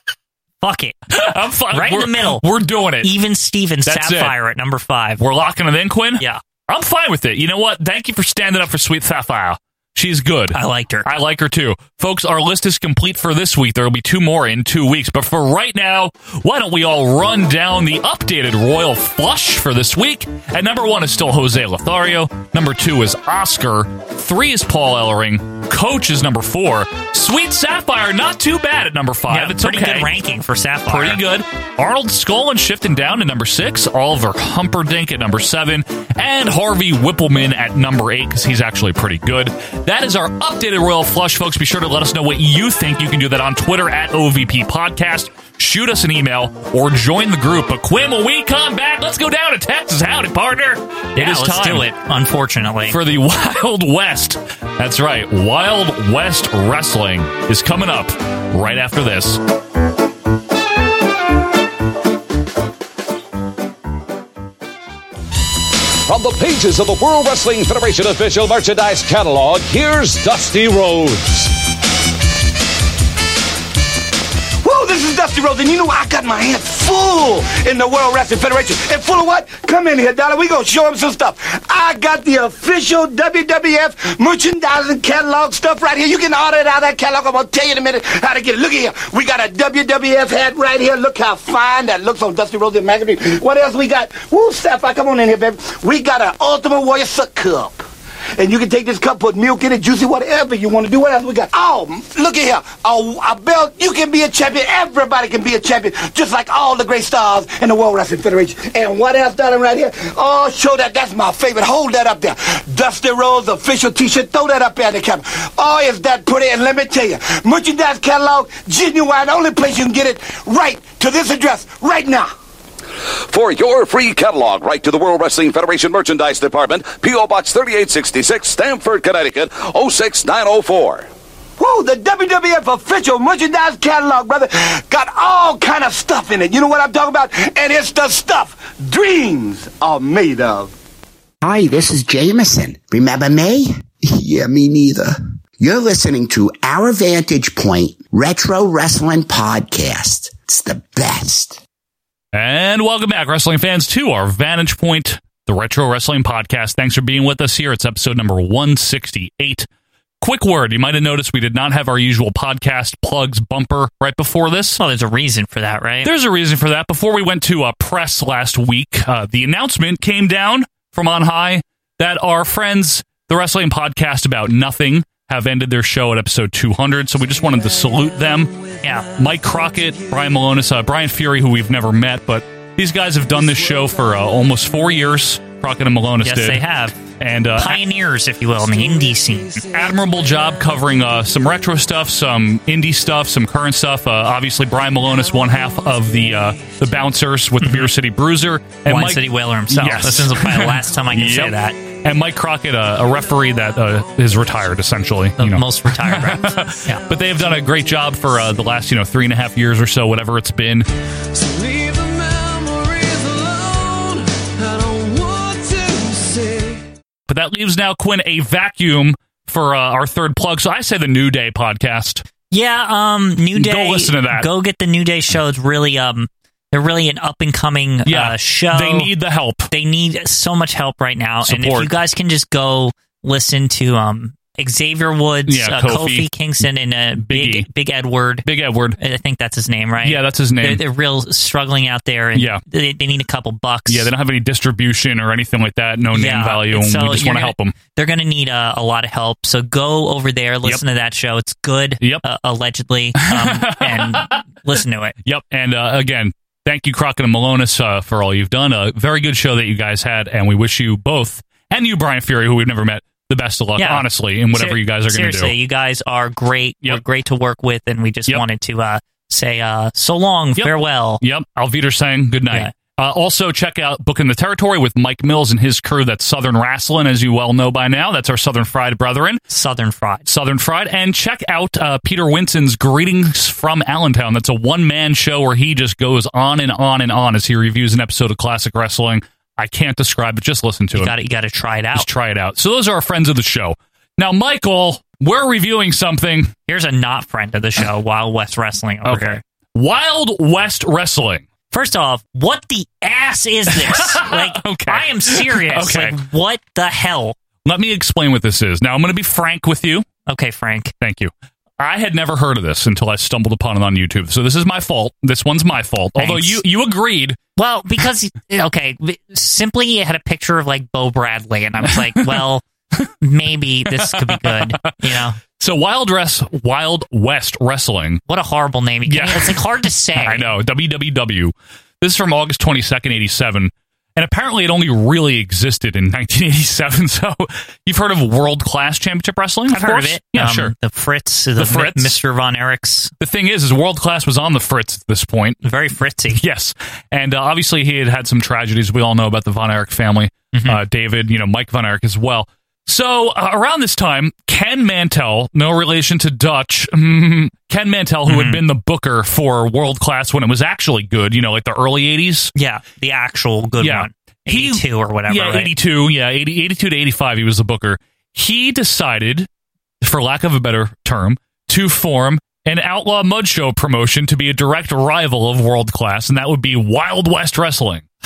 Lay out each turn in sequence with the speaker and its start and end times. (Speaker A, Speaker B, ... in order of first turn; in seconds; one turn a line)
Speaker A: 0.6-1.0
Speaker B: 1.1-3.1
Speaker A: 1.7-2.4
Speaker A: 3.0-5.2
Speaker B: 3.9-4.3
Speaker B: 5.2-30.2
Speaker A: 10.5-11.1
Speaker A: 29.3-31.2
Speaker B: 30.9-51.9
Speaker A: 51.1-53.0
Speaker B: 52.9-59.4
Speaker C: 66.0-71.5
Speaker D: 74.6-97.8
Speaker D: 98.4-122.3
Speaker C: 123.3-131.1
Speaker D: 131.6-140.7
Speaker E: 141.4-143.7
Speaker E: 144.2-151.5
Speaker B: 152.3-159.7
Speaker B: 160.2-164.8
Speaker A: 164.8-166.1
Speaker B: 166.0-178.6
Speaker A: 178.8-179.1
Speaker B: 179.1-187.8
Speaker A: 186.2-187.0
Speaker A: 187.6-189.6
Speaker B: 189.7-210.9
Speaker A: 197.6-197.9
Speaker A: 198.9-201.8
Speaker A: 205.4-207.0
Speaker B: 217.3-222.2
Speaker A: 222.5-229.1
Speaker B: 223.5-224.5
Speaker B: 228.1-229.7
Speaker A: 229.7-238.4
Speaker B: 231.4-231.9
Speaker B: 235.5-236.3
Speaker B: 237.2-237.7
Speaker B: 238.4-239.0
Speaker A: 239.0-244.1
Speaker B: 240.0-240.8
Speaker B: 242.3-242.6
Speaker B: 243.9-247.8
Speaker A: 246.1-255.2
Speaker B: 253.2-254.4
Speaker B: 255.2-265.5
Speaker A: 263.8-271.2
Speaker B: 270.6-279.4
Speaker A: 279.5-280.3
Speaker B: 280.3-291.1
Speaker A: 290.9-292.1
Speaker B: 291.9-296.5
Speaker A: 296.7-299.4
Speaker B: 299.1-301.4
Speaker A: 301.7-307.4
Speaker B: 303.7-306.2
Speaker B: 307.6-310.0
Speaker A: 310.3-310.9
Speaker B: 311.0-317.4
Speaker A: 316.2-316.6
Speaker A: 317.6-322.6
Speaker B: 321.9-322.4
Speaker A: 323.2-325.4
Speaker B: 323.9-328.2
Speaker A: 328.3-330.5
Speaker B: 329.1-340.7
Speaker A: 339.7-343.1
Speaker B: 341.6-342.2
Speaker B: 343.2-345.6
Speaker A: 345.6-346.4
Speaker B: 346.3-362.5
Speaker A: 350.5-350.8
Speaker A: 358.3-358.6
Speaker A: 362.6-365.7
Speaker B: 363.8-369.5
Speaker B: 370.0-378.1